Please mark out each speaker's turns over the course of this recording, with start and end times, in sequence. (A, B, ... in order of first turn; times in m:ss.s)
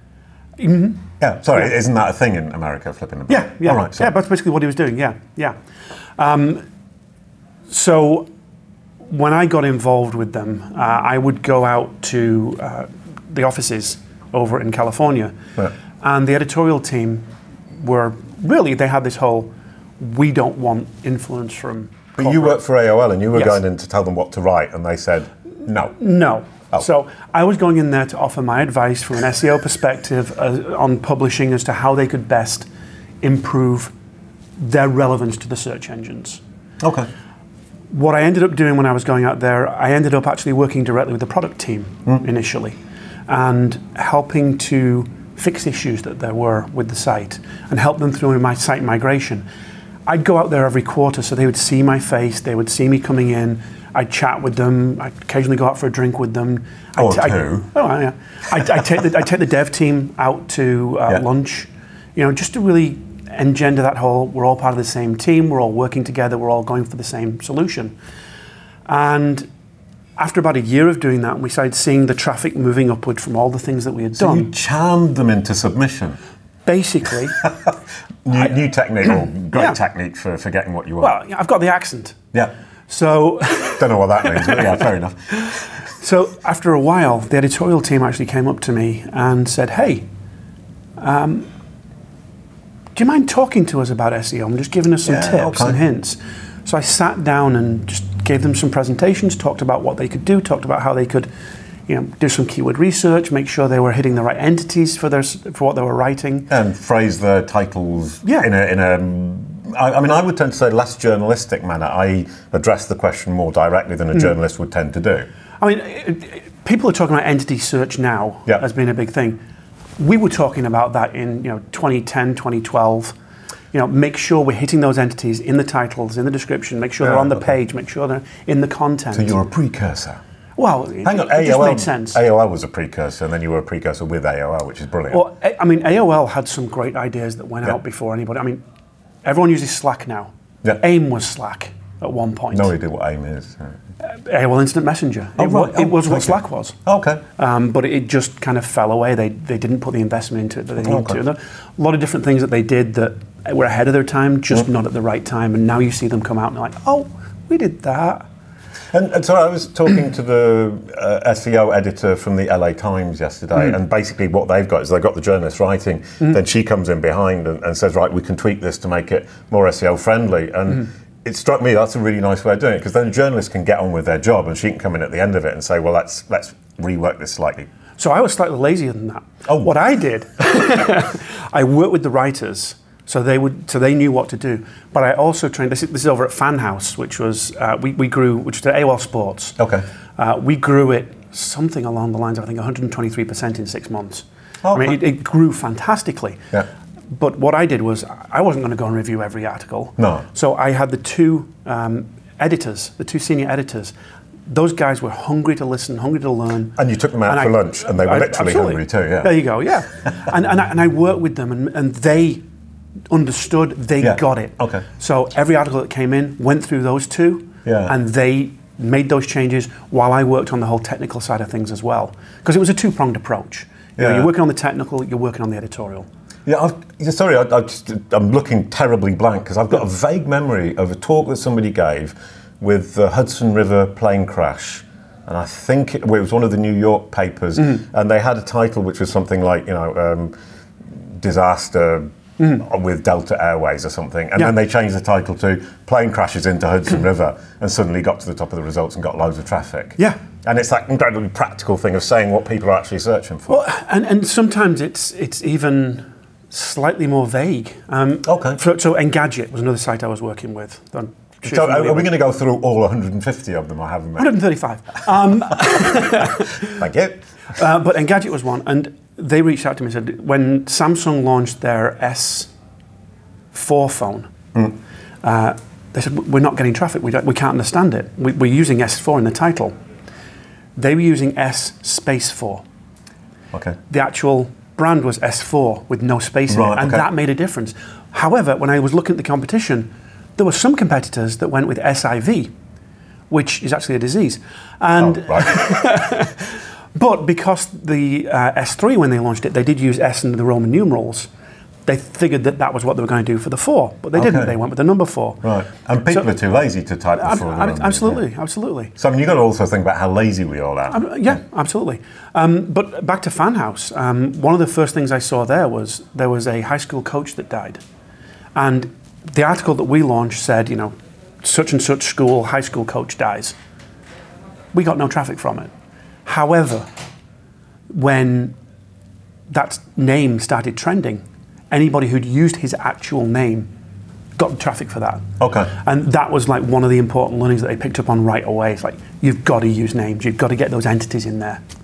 0:00.6-0:01.7 A
0:01.2-0:04.1 B
0:03.3-0:05.6 A
0:06.2-0:06.6 A
0:07.7-0:08.3 A
0:09.1-0:15.3 A
0:16.0-0:17.2 A
0:17.8-0:22.6 A
0:22.2-0:26.0 B
0:26.0-0:32.7 A
0:33.2-0:33.9 A
0:34.6-0:36.4 A
0:36.8-0:37.1 B
0:37.9-0:42.8 A
0:43.3-0:49.5 A
0:50.1-1:08.0 A
0:57.0-0:57.7 B
1:08.9-1:09.5 A
1:10.2-1:14.5 A
1:14.2-1:16.2 B
1:16.7-1:17.4 A
1:18.2-1:21.1 B
1:19.5-1:19.8 A
1:21.0-1:22.2 A
1:22.9-1:30.1 A
1:23.8-1:25.2 B
1:31.0-1:31.5 A
1:33.0-1:41.3 A
1:35.1-1:35.8 B
1:41.9-1:46.5 A
1:46.5-1:55.3 B
1:48.2-1:48.5 A
1:55.6-1:59.4 A
2:00.0-2:03.2 A
2:03.7-2:09.4 A
2:07.0-2:07.4 B
2:09.1-2:10.2 B
2:10.6-2:12.2 A
2:11.0-2:15.2 B
2:15.1-2:18.6 A
2:19.2-2:22.7 A
2:22.5-2:23.7 B
2:24.0-2:26.8 A
2:25.4-2:27.2 B
2:27.4-2:38.2 A
2:30.8-2:31.2 B
2:38.9-2:57.7 B
2:58.0-3:09.6 A
2:59.5-2:59.7 B
3:09.6-3:09.8 B
3:10.2-3:16.4 A
3:14.6-3:15.0 B
3:17.1-3:24.0 A
3:20.0-3:20.2 B
3:24.5-3:32.4 A
3:26.8-3:29.4 B
3:33.1-3:46.1 A
3:34.0-3:34.8 B
3:37.6-3:37.9 B
3:44.0-3:44.3 B
3:46.5-4:00.3 B
4:00.9-4:13.6 B
4:13.5-4:22.1 A
4:18.2-4:18.6 B
4:21.4-4:24.4 B
4:24.2-4:26.8 A
4:26.7-4:27.2 B
4:27.5-4:32.5 A
4:33.5-4:34.3 A
4:35.2-4:39.8 A
4:40.8-4:42.6 A
4:43.5-4:43.8 B
4:43.9-4:52.5 A
4:46.5-4:47.1 B
4:53.3-5:01.3 A
4:55.0-4:55.7 B
5:01.9-5:05.4 A
5:04.2-5:04.5 B
5:05.4-5:08.2 B
5:07.2-5:08.9 A
5:09.0-5:11.1 B
5:10.9-5:17.8 A
5:18.6-5:23.6 A
5:24.7-5:25.7 A
5:26.2-5:26.9 A
5:27.9-5:28.6 A
5:29.5-5:33.7 A
5:34.4-5:41.6 A
5:35.4-5:35.7 B